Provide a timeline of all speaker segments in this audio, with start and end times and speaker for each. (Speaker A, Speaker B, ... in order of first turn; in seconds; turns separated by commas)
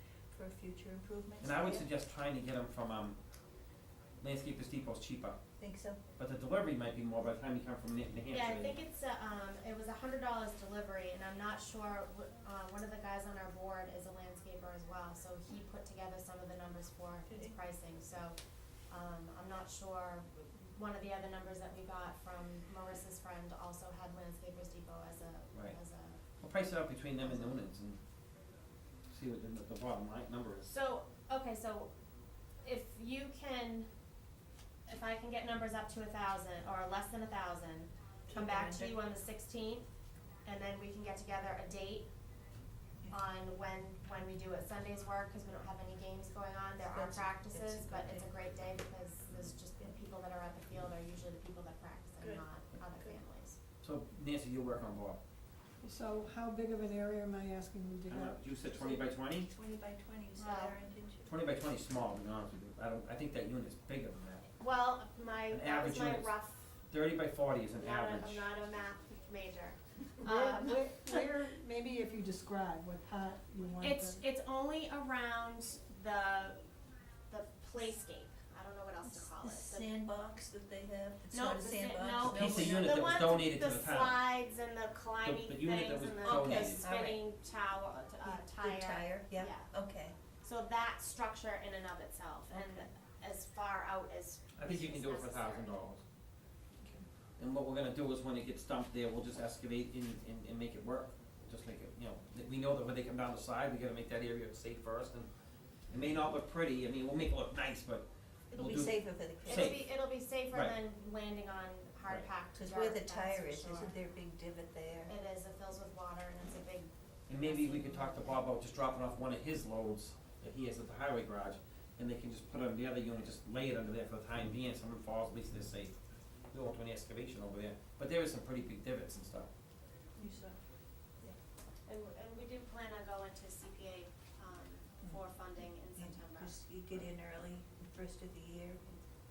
Speaker A: 0.3-1.9, Speaker B: 1.4-3.2, Speaker B: 4.2-5.4, Speaker A: 5.6-6.0, Speaker B: 6.2-8.8, Speaker C: 8.3-18.4, Speaker A: 17.3-17.6, Speaker C: 18.9-26.2, Speaker B: 26.4-28.0, Speaker C: 27.2-27.6, Speaker B: 29.1-30.7, Speaker C: 30.6-31.9, Speaker C: 32.6-33.9, Speaker C: 34.9-39.9, Speaker A: 38.3-39.0, Speaker C: 40.5-42.1, Speaker C: 43.1-53.6, Speaker A: 46.9-48.3, Speaker B: 53.8-55.2, Speaker D: 55.8-58.5, Speaker B: 58.1-59.5, Speaker A: 58.7-61.3, Speaker C: 60.4-60.7, Speaker B: 61.3-64.5, Speaker C: 64.5-66.8, Speaker B: 65.5-66.3, Speaker B: 66.9-68.5, Speaker C: 67.8-71.2, Speaker D: 70.3-74.2, Speaker C: 73.8-76.6, Speaker C: 77.3-79.9, Speaker A: 79.0-82.8, Speaker C: 81.3-89.7, Speaker B: 82.3-84.2, Speaker B: 85.2-86.9, Speaker A: 86.2-87.2, Speaker A: 88.2-90.2, Speaker C: 90.4-95.9, Speaker A: 92.5-92.8, Speaker B: 94.6-96.0, Speaker B: 97.4-105.3, Speaker B: 105.9-109.8, Speaker A: 108.5-109.8, Speaker C: 109.5-113.9, Speaker A: 112.5-115.2, Speaker C: 115.1-118.5, Speaker B: 117.3-126.0, Speaker B: 126.5-129.5, Speaker A: 130.2-130.6, Speaker C: 131.9-136.6, Speaker A: 135.9-139.0